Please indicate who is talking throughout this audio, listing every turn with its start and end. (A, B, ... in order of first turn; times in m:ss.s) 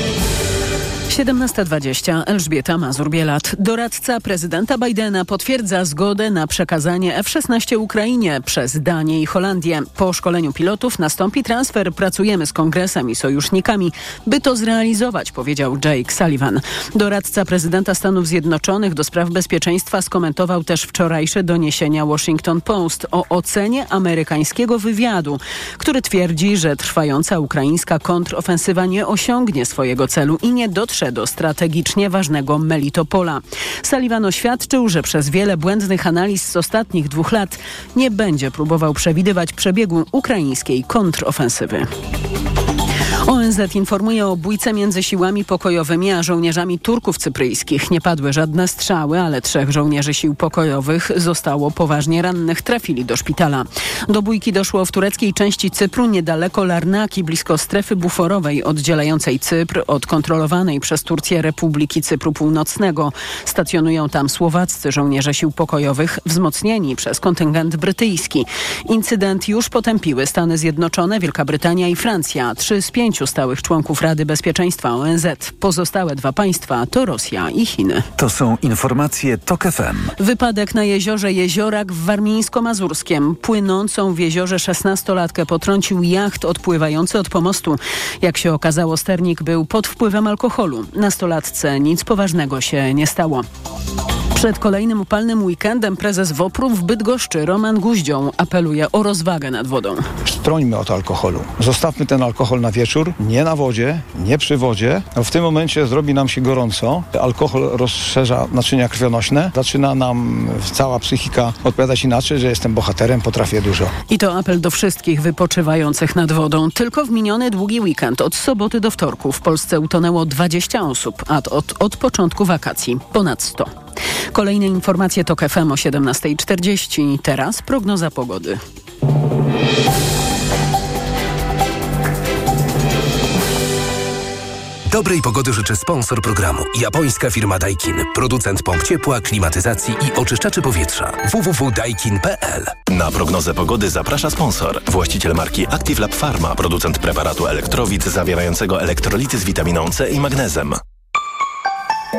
0:01.1-0:41.9 A
0:43.2-1:18.1 A
1:18.2-1:20.2 B
1:20.2-1:33.5 A
1:34.3-1:40.1 A
1:40.2-1:54.0 C
1:54.1-2:03.7 A
2:04.3-2:08.6 A
2:14.9-2:22.8 D
2:22.9-2:30.8 E